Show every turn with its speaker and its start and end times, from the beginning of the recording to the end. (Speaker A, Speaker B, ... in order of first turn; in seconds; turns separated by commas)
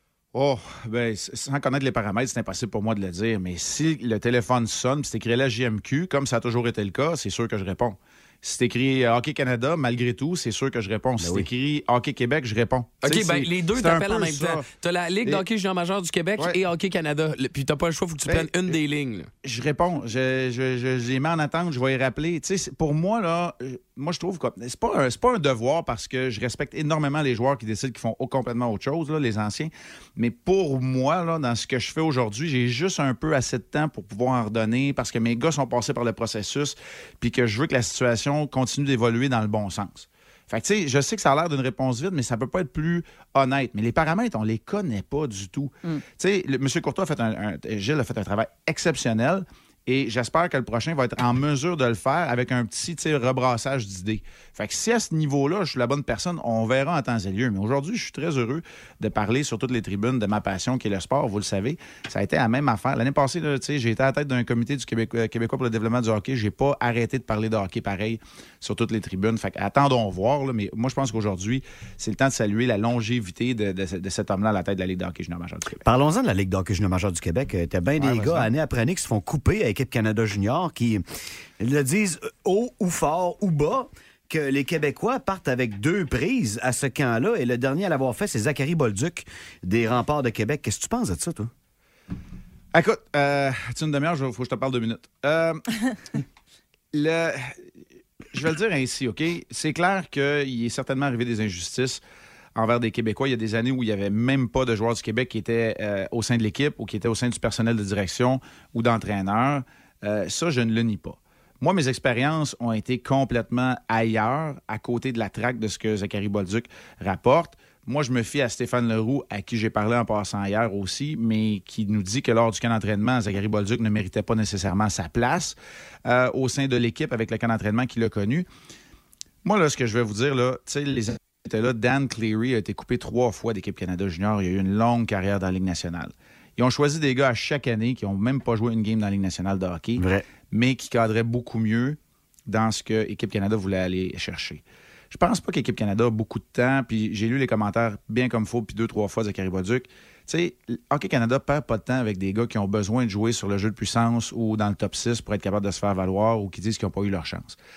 Speaker A: 0.3-14.7, Speaker B: 13.0-19.3, Speaker A: 18.2-18.8, Speaker A: 19.4-75.8, Speaker C: 75.8-81.0, Speaker A: 78.0-78.5, Speaker C: 81.6-91.5, Speaker A: 92.7-95.6, Speaker A: 96.9-97.6, Speaker A: 98.3-102.0, Speaker A: 102.5-128.4, Speaker A: 129.4-157.6, Speaker C: 140.0-140.2